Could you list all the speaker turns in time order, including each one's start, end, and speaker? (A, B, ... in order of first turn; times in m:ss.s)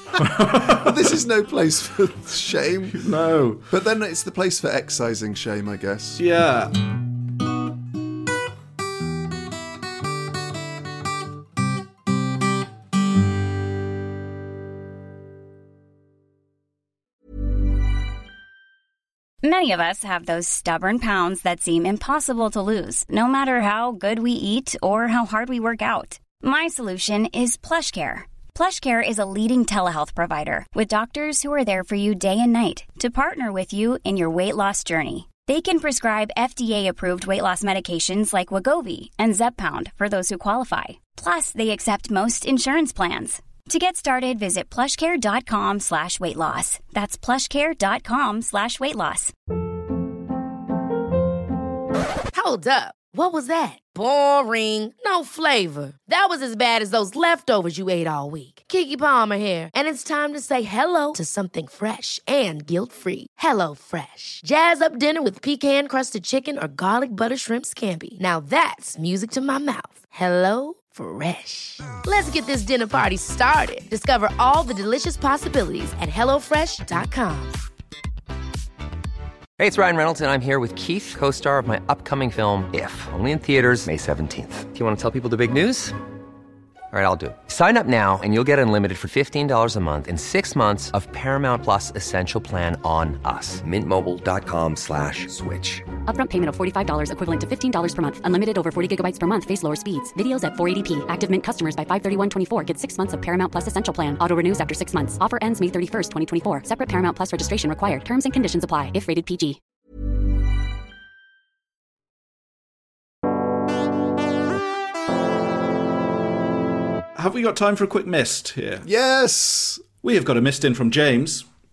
0:00.2-0:00.9 A
0:00.4-0:03.0 B
0:02.9-0:03.6 A
0:03.7-0:06.2 B
0:06.2-0:06.7 A
0:19.4-0:49.3 C
0:52.3-1:17.6 D
1:19.6-1:26.0 E
1:26.9-1:35.9 E
1:36.0-1:49.6 F
1:57.1-1:58.9 A
1:58.8-1:59.8 B
2:00.0-2:01.4 A